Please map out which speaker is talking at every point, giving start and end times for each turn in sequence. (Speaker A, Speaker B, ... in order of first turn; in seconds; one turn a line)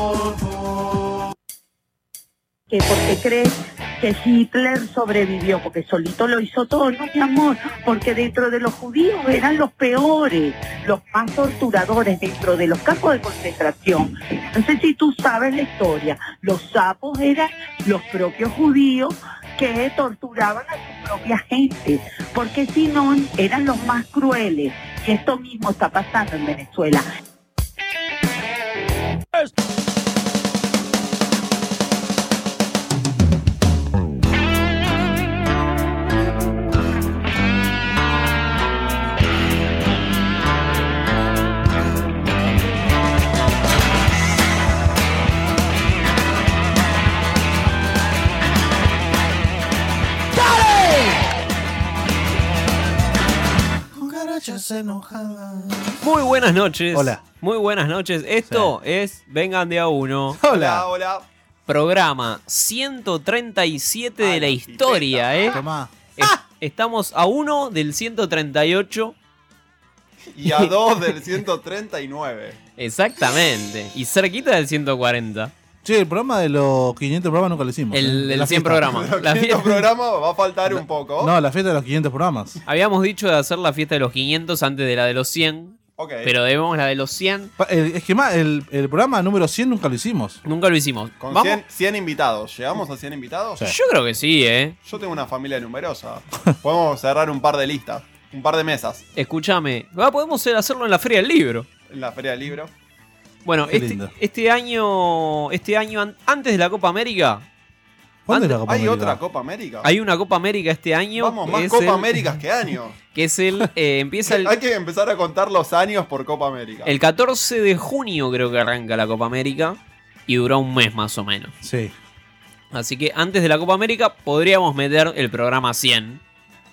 Speaker A: 2.7-27.1
Speaker B: 50.3-51.2
Speaker B: 53.9-56.0
Speaker C: 56.0-60.4
Speaker B: 56.9-57.2
Speaker B: 58.5-58.7
Speaker B: 60.4-60.9
Speaker D: 60.5-61.2
Speaker C: 61.6-65.6
Speaker D: 64.2-65.3
Speaker B: 65.5-66.4
Speaker C: 66.2-69.1
Speaker D: 70.3-72.6
Speaker C: 72.8-75.5
Speaker B: 75.8-78.9
Speaker C: 77.9-79.9
Speaker D: 78.8-81.3
Speaker B: 80.7-82.6
Speaker C: 82.7-87.5
Speaker D: 86.0-86.3
Speaker B: 87.6-90.4
Speaker C: 90.4-91.6
Speaker D: 91.2-93.7
Speaker C: 93.7-94.8
Speaker D: 94.8-99.0
Speaker C: 99.2-101.7
Speaker D: 101.9-102.7
Speaker C: 103.4-107.4
Speaker B: 103.7-104.1
Speaker B: 108.3-109.2
Speaker D: 108.3-109.9
Speaker C: 109.8-112.1
Speaker D: 111.2-113.0
Speaker C: 113.1-114.5
Speaker D: 114.3-116.9
Speaker C: 116.8-121.5
Speaker B: 121.6-121.9
Speaker C: 122.7-126.2